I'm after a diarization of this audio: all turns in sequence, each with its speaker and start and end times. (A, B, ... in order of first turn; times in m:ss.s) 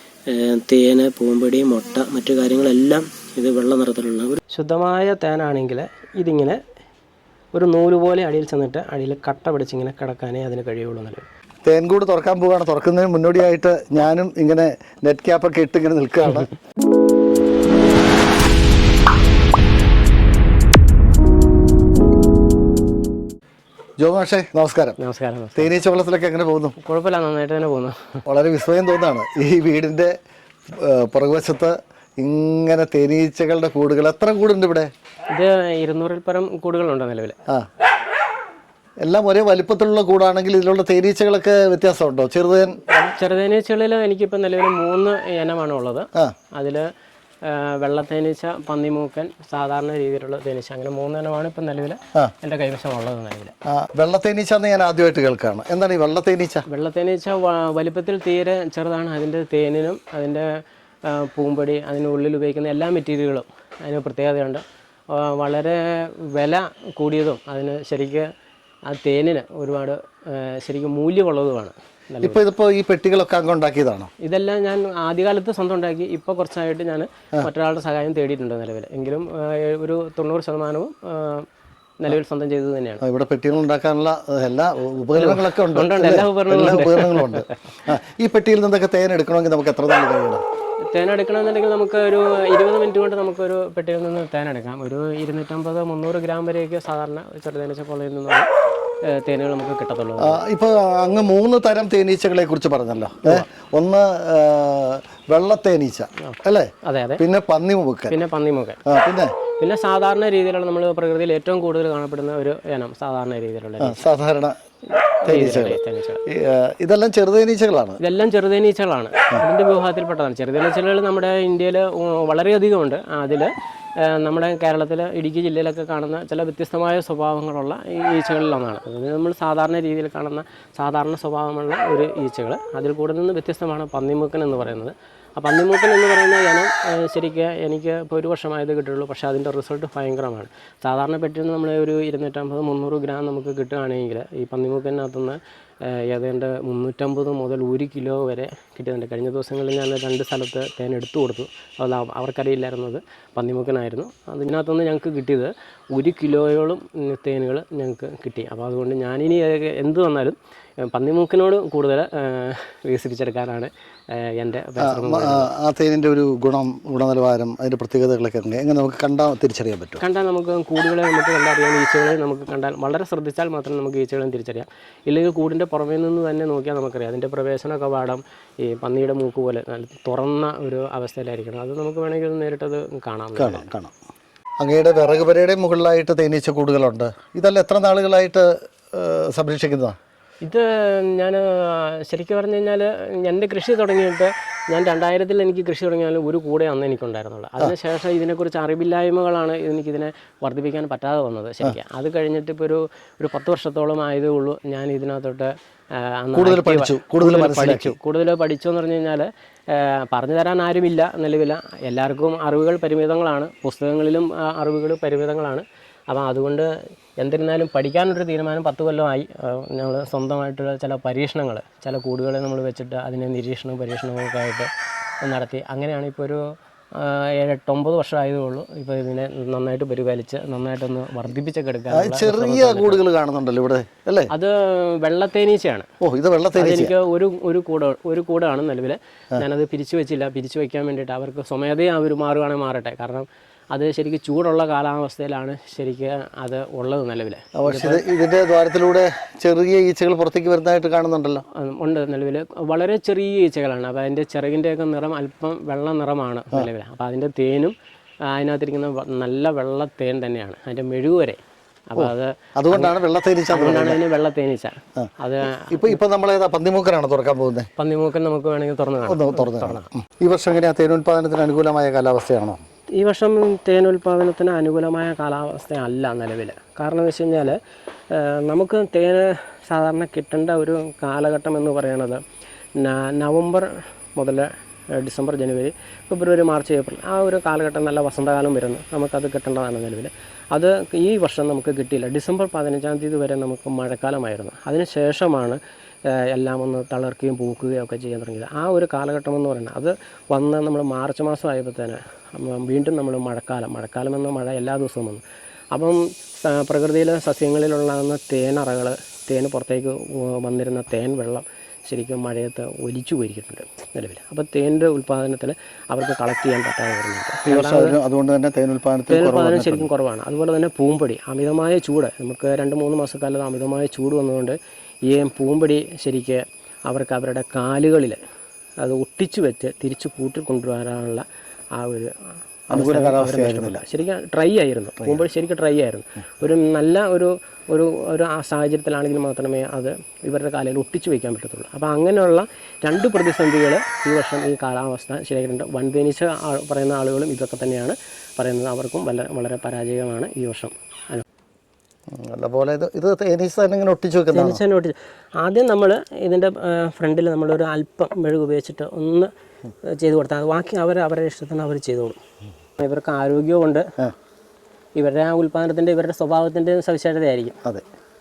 0:00.3-0:06.6 A
0:07.5-0:11.3 A
0:11.7-0:16.5 B
0:24.0-0:25.0 B
0:25.0-0:25.7 A
0:25.6-0:26.8 B
0:26.8-0:28.2 A
0:28.3-0:30.1 B
0:30.7-0:34.9 B
0:35.3-0:37.4 A
0:39.0-0:42.8 B
0:42.9-0:46.9 A
0:47.4-0:53.5 A
0:53.7-0:56.6 B
0:56.7-1:08.3 A
1:08.9-1:12.4 A
1:12.2-1:14.1 B
1:14.2-1:21.5 A
1:22.0-1:23.0 A
1:23.0-1:30.4 B
1:25.1-1:27.6 A
1:30.8-1:38.5 A
1:39.0-1:40.4 A
1:40.2-1:48.2 B
1:46.2-1:47.2 A
1:48.1-1:48.8 A
1:48.8-1:49.3 B
1:49.6-1:54.0 A
1:53.8-1:54.6 B
1:54.9-1:56.2 A
1:55.2-1:58.0 B
1:58.0-2:45.5 A
2:44.8-2:50.0 B
2:50.0-3:03.7 A
3:03.4-3:03.9 B
3:04.6-3:10.0 B
3:10.4-3:44.7 A
3:26.4-3:28.0 B
3:45.2-3:46.4 A
3:46.9-3:53.0 A
3:51.9-3:54.3 B
3:54.3-3:55.9 A
3:56.0-3:56.9 B
3:56.6-4:08.0 A
4:07.6-4:11.4 B
4:11.6-4:17.7 A
4:18.3-4:21.4 A
4:21.9-4:23.0 A
4:22.0-4:24.0 B
4:23.5-4:26.0 A
4:25.0-4:27.7 B
4:27.8-4:29.9 A
4:29.0-4:32.6 B
4:33.0-4:37.6 A
4:38.1-4:42.2 A
4:42.8-5:18.0 A
5:17.5-5:19.9 B
5:19.1-5:28.2 A
5:28.8-5:31.2 A
5:31.8-5:51.3 A
5:32.7-5:33.8 B
5:35.0-5:35.2 B
5:52.1-5:54.6 B
5:54.3-5:59.3 A
5:59.8-6:02.2 A
6:02.8-6:03.9 A
6:05.0-6:07.6 A